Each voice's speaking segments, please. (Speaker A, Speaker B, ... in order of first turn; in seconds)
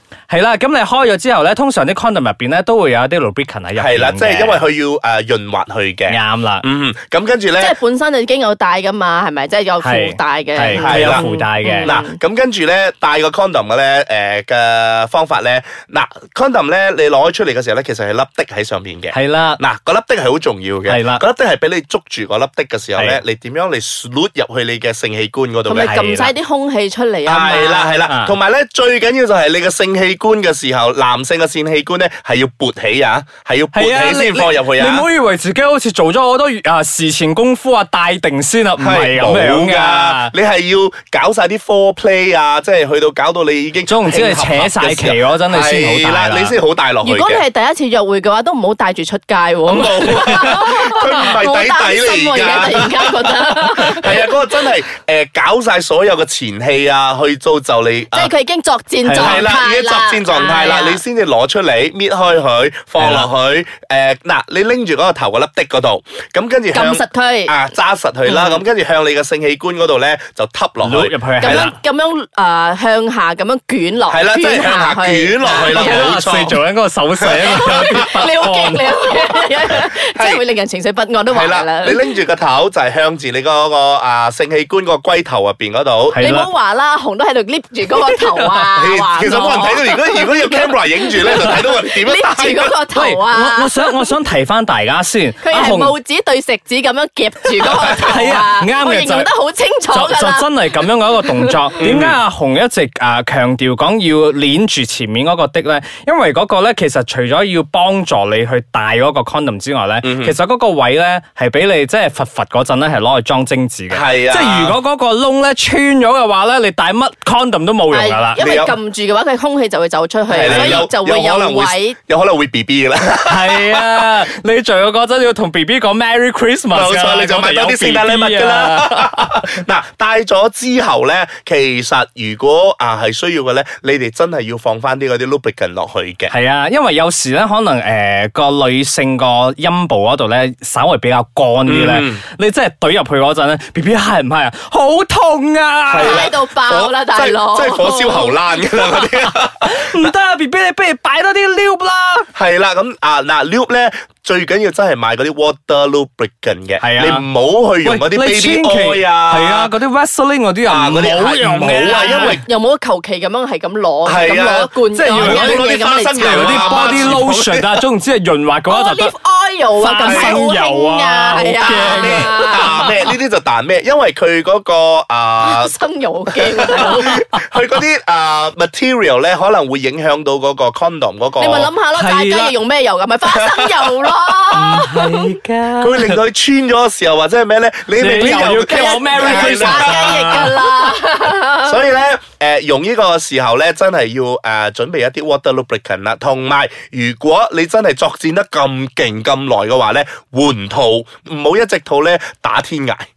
Speaker A: 0.3-4.6, 6.1-6.6, 9.8-11.9, 19.1-19.6, 20.9-21.2, 25.8-26.3, 28.1-28.3, 33.7-40.3, 43.9-46.6, 50.0-50.6, 59.0-59.4, 63.0-63.3, 70.8-71.8, 75.5-79.4, 86.1-86.5, 88.0-88.7, 92.9-96.0, 97.6-99.3, 99.9-118.4, 120.3-120.9, 123.2-129.6, 136.3-146.3, 149.6-152.3, 156.8-157.2, 157.8-162.4, 164.9-169.1, 169.8-172.9, 176.9-177.2, 181.9-182.5, 184.5-186.2, 187.9-190.9
Speaker B: 3.8-7.8, 10.8-11.2, 11.8-25.9, 27.2-35.1, 38.8-47.4, 49.7-58.3, 59.1-71.7, 74.1-76.6, 77.2-78.0, 79.7-80.4, 81.3-86.2, 88.7-92.8, 101.8-102.2, 110.0-110.3, 113.9-114.8, 118.4-118.7, 120.3-124.0, 126.7-136.3, 141.7-142.2, 145.9-150.1, 152.3-159.7, 160.6-162.4, 164.0-167.8, 170.0-170.4, 171.6-175.7, 176.3-181.7, 183.3-184.2, 185.8-190.5, 191.6-203.1
Speaker C: 7.6-12.2, 25.6-27.9, 47.0-54.3, 58.1-61.0, 66.7-67.5, 68.2-68.6, 71.4-76.1, 77.4-82.0, 86.2-94.0, 95.4-101.6, 117.9-122.0, 146.0-148.4, 161.8-167.2, 168.7-172.9, 175.4-177.2, 181.4-185.2, 188.6-191.8